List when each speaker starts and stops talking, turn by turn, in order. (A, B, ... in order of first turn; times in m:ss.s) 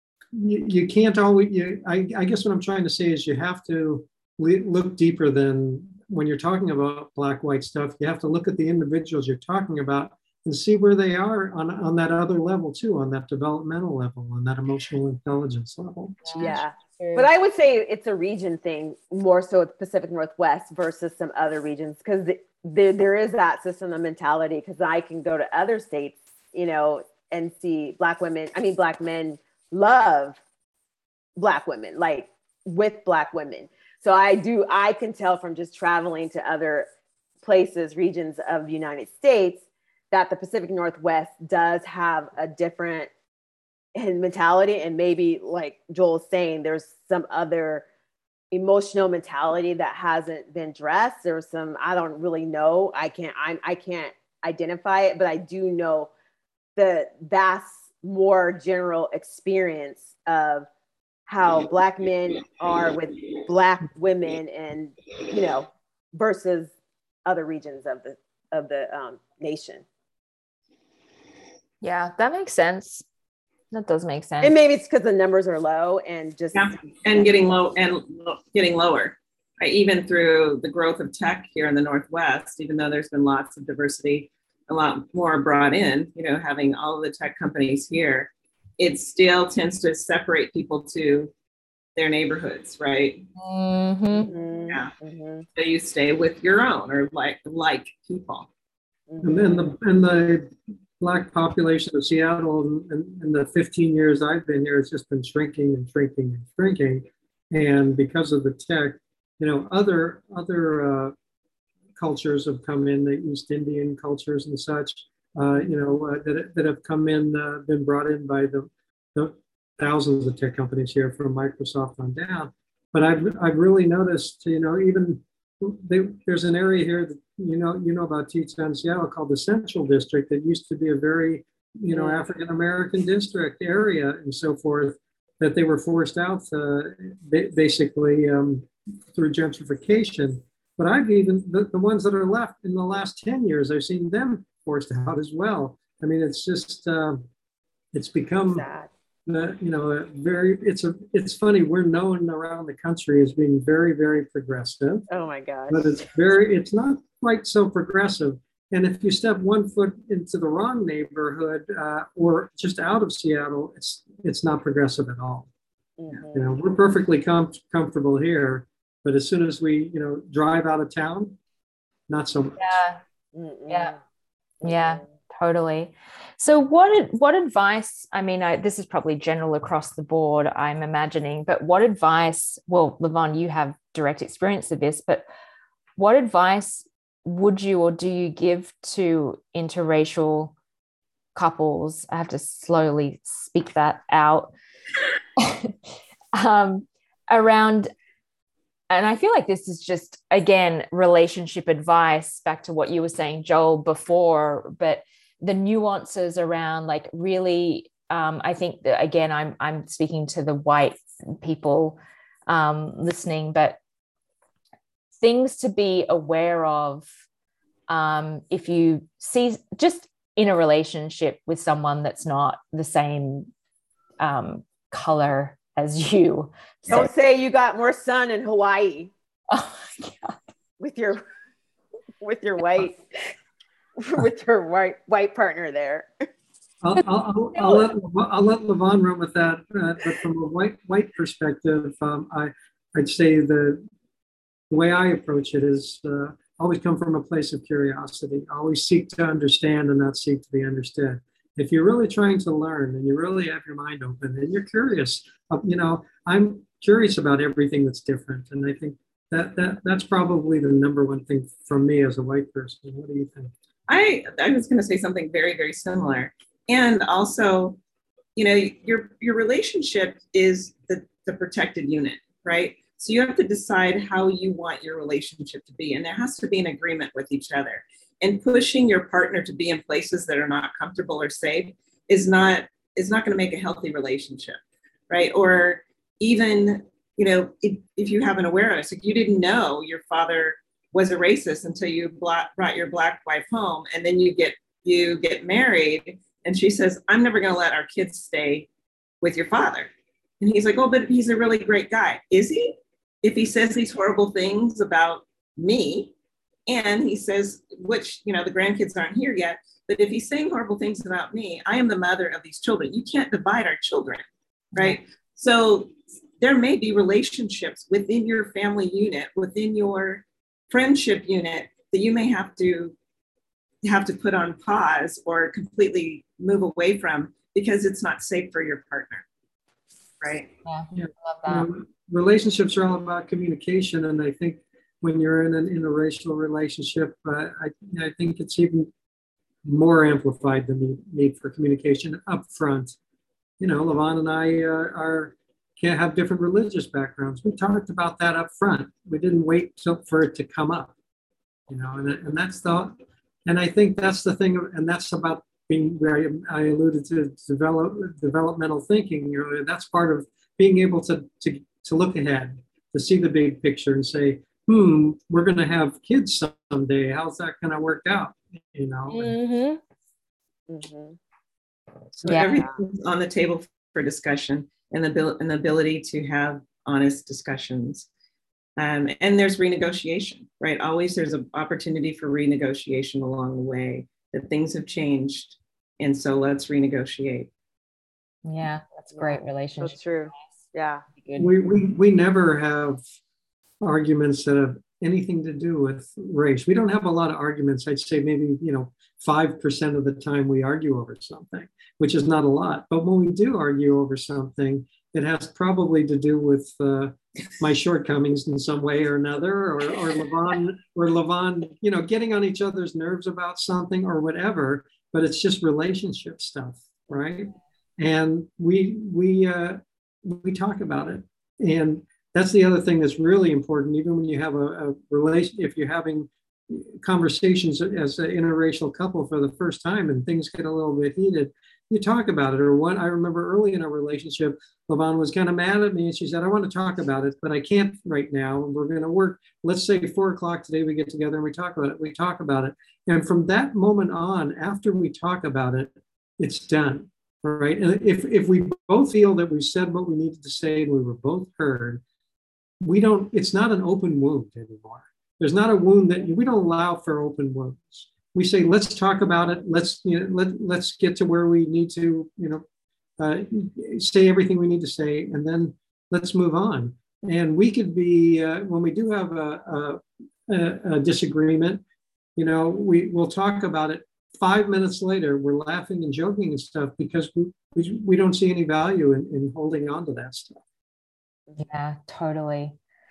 0:00.3-0:16.4 A
0:16.2-0:17.3 B
0:16.3-0:30.4 C
0:31.4-0:36.9 C
0:37.4-0:43.1 C
0:43.9-0:47.8 C
0:48.5-0:56.1 C
0:56.8-1:00.7 C
1:01.3-1:06.7 C
1:07.2-1:09.8 C
1:11.8-1:13.0 B
1:13.7-1:14.5 B
1:14.4-1:17.2 C
1:16.5-1:31.3 D
1:32.0-1:33.2 D
1:33.4-1:34.3 B
1:34.1-1:35.4 C
1:35.5-1:38.5 D
1:39.1-1:39.7 C
1:39.2-1:51.1 A
1:52.0-2:27.2 A
2:11.9-2:12.2 C
2:27.9-2:28.6 A
2:28.5-2:28.9 C
2:29.3-2:35.1 A
2:35.1-2:36.0 C
2:35.7-2:45.5 A
2:46.0-2:46.5 C
2:46.3-2:51.4 A
2:52.1-2:52.8 A
2:52.6-2:53.0 B
2:53.3-2:54.0 C
2:53.7-2:53.9 B
2:54.6-2:55.1 C
2:54.6-3:05.2 B
3:06.0-3:10.5 B
3:11.3-3:14.5 B
3:15.4-3:15.7 B
3:16.3-3:17.9 B
3:18.9-3:33.8 B
3:35.2-3:37.1 B
3:37.9-3:43.5 B
3:44.2-3:47.1 B
3:46.9-3:49.1 C
3:49.5-3:50.4 B
3:50.8-3:51.2 C
3:52.2-3:53.0 C
3:54.0-3:56.1 C
3:56.8-4:03.8 A
4:04.7-4:23.5 A
4:23.9-4:27.8 D
4:28.4-4:58.7 D
4:59.2-4:59.9 D
5:00.4-5:06.1 D
5:06.7-5:22.9 D
5:23.8-5:29.2 D
5:30.2-5:30.5 D
5:30.6-5:31.7 B
5:30.9-5:38.9 A
5:39.6-5:43.0 A
5:43.6-5:50.9 A
5:51.7-5:52.9 A
5:53.4-6:09.3 A
6:09.1-6:09.8 B
6:10.7-6:11.2 C
6:12.1-6:18.1 D
6:12.2-6:12.6 B
6:12.5-6:12.8 C
6:18.8-6:27.5 D
6:28.4-6:30.5 B
6:29.1-6:31.0 C
6:31.1-6:31.5 B
6:31.4-6:33.0 A
6:33.8-7:32.0 A
7:32.8-7:42.6 A
7:43.2-7:51.8 A
7:52.4-8:00.6 A
8:01.6-8:02.8 B